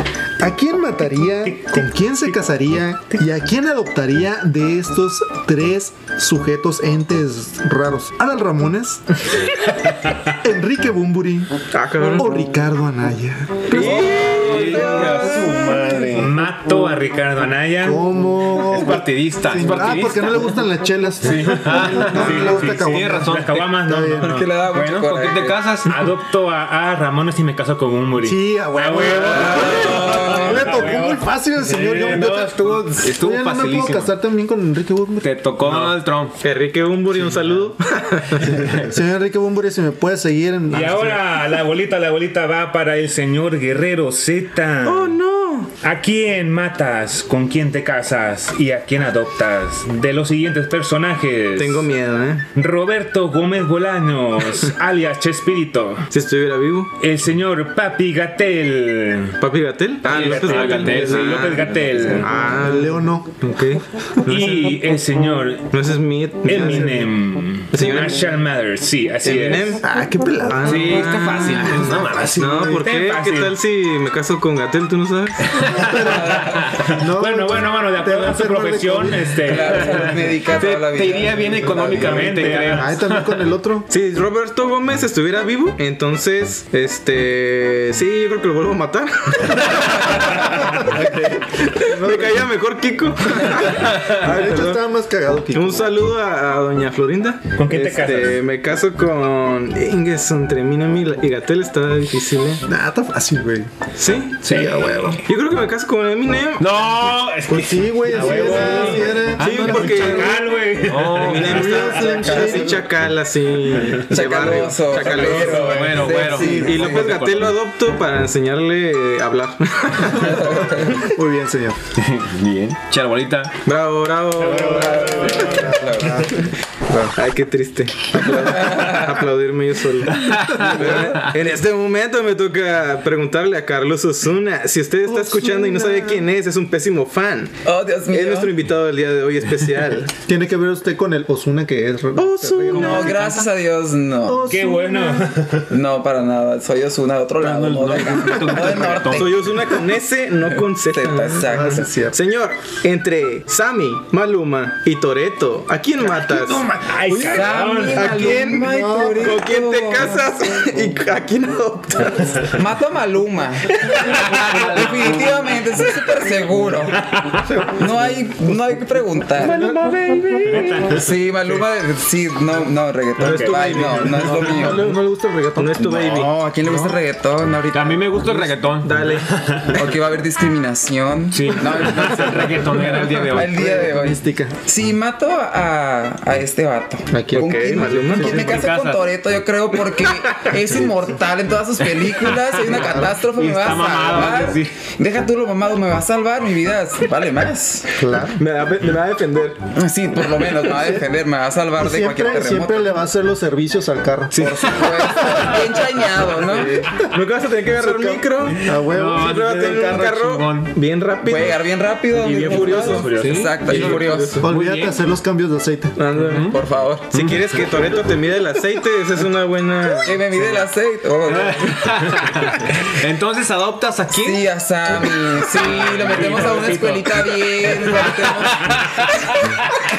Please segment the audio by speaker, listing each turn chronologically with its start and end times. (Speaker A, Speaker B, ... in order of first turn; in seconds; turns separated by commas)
Speaker A: 0.4-9.0, Speaker B: 1.4-1.9, Speaker A: 10.4-11.5, Speaker C: 11.7-12.3, Speaker A: 12.1-15.2, Speaker D: 13.7-16.5, Speaker C: 13.7-15.6, Speaker B: 16.1-18.0, Speaker A: 17.8-24.3, Speaker D: 18.7-20.6, Speaker D: 21.2-23.7, Speaker B: 22.1-24.5, Speaker E: 24.2-25.6, Speaker D: 24.7-26.1, Speaker B: 25.8-32.5, Speaker A: 28.2-35.3, Speaker E: 29.5-30.5, Speaker D: 31.8-34.1, Speaker D: 35.2-36.3, Speaker B: 35.7-35.9, Speaker C: 36.4-38.6, Speaker A: 38.5-41.2, Speaker B: 40.7-45.1, Speaker C: 44.8-45.7, Speaker B: 45.8-51.9, Speaker C: 51.6-52.5, Speaker B: 52.5-56.0, Speaker C: 56.1-56.9, Speaker B: 57.0-59.4, Speaker C: 59.4-64.8, Speaker B: 60.1-62.3, Speaker D: 60.1-62.3, Speaker A: 62.4-63.3, Speaker B: 64.2-65.7, Speaker C: 65.7-67.1, Speaker B: 66.4-69.8, Speaker A: 66.5-67.1, Speaker C: 67.7-68.2, Speaker C: 69.2-69.8, Speaker A: 69.8-72.8, Speaker C: 70.5-76.0, Speaker D: 70.6-72.4, Speaker B: 72.8-73.5, Speaker A: 75.7-79.5, Speaker B: 76.5-80.1, Speaker E: 79.5-82.0, Speaker D: 80.6-83.3, Speaker A: 81.6-83.9, Speaker B: 81.9-82.9, Speaker C: 83.9-94.8, Speaker A: 90.5-92.5, Speaker A: 94.2-95.9, Speaker C: 95.5-102.6, Speaker B: 97.6-98.4, Speaker A: 102.6-103.7, Speaker C: 104.0-104.6, Speaker A: 104.4-105.2, Speaker B: 104.5-104.7, Speaker C: 105.2-106.6, Speaker D: 106.6-110.3, Speaker A: 107.5-110.3, Speaker B: 108.1-111.5, Speaker C: 108.5-110.4, Speaker D: 110.8-112.2, Speaker C: 111.2-121.0, Speaker A: 111.3-112.8, Speaker E: 114.1-117.1, Speaker B: 115.0-116.3, Speaker D: 115.2-117.5, Speaker A: 116.3-117.0, Speaker E: 120.2-121.0, Speaker A: 121.0-121.8, Speaker D: 122.0-123.5, Speaker C: 123.7-125.7, Speaker B: 124.4-125.7, Speaker A: 124.4-127.1, Speaker E: 125.6-126.2, Speaker C: 127.2-137.6, Speaker E: 128.5-129.0, Speaker D: 130.1-130.8, Speaker A: 130.7-131.1, Speaker A: 135.1-136.2, Speaker E: 137.6-138.5, Speaker C: 138.1-140.1, Speaker A: 140.2-143.2, Speaker C: 142.2-143.4, Speaker E: 142.7-144.4, Speaker A: 144.3-145.2, Speaker B: 144.4-145.7, Speaker E: 145.7-149.3, Speaker D: 147.4-149.4, Speaker C: 149.1-157.4, Speaker E: 150.8-151.9, Speaker A: 151.4-152.2, Speaker B: 156.8-158.2, Speaker A: 157.1-159.4, Speaker E: 157.2-160.2, Speaker C: 157.9-162.5, Speaker E: 162.5-163.8, Speaker C: 163.8-165.0, Speaker E: 164.5-167.0, Speaker B: 167.1-167.4, Speaker A: 167.4-168.3, Speaker E: 167.8-169.6, Speaker D: 169.4-170.9, Speaker A: 169.5-170.7, Speaker B: 170.5-171.6, Speaker E: 170.9-174.9, Speaker B: 173.2-173.6, Speaker C: 173.2-175.0, Speaker A: 173.9-176.2, Speaker C: 175.5-176.3, Speaker E: 175.9-178.5, Speaker D: 177.7-179.1, Speaker C: 178.8-179.8, Speaker B: 179.3-179.6, Speaker E: 179.7-182.6, Speaker D: 181.3-183.7, Speaker A: 183.2-184.6, Speaker E: 183.3-197.8, Speaker A: 187.1-188.0, Speaker C: 187.2-188.6, Speaker B: 187.4-188.2, Speaker D: 188.1-189.0, Speaker D: 191.8-194.7, Speaker A: 192.7-193.1, Speaker A: 198.0-198.4, Speaker C: 198.4-199.6, Speaker E: 199.7-202.9, Speaker A: 200.8-201.0, Speaker A: 201.8-205.2, Speaker D: 204.3-205.6, Speaker E: 204.4-206.8, Speaker D: 206.5-207.0, Speaker C: 207.1-211.7, Speaker A: 207.8-209.7, Speaker D: 208.7-210.7, Speaker E: 211.2-214.3, Speaker C: 212.2-214.4, Speaker B: 212.3-213.6, Speaker D: 212.9-215.0, Speaker A: 214.4-215.9, Speaker C: 216.0-216.5, Speaker D: 216.2-216.6, Speaker E: 216.5-217.1, Speaker D: 217.1-217.7, Speaker C: 217.1-220.2, Speaker E: 220.0-222.2, Speaker D: 221.3-224.4, Speaker E: 224.1-228.8, Speaker D: 225.6-226.5, Speaker B: 225.7-227.8, Speaker D: 228.6-229.2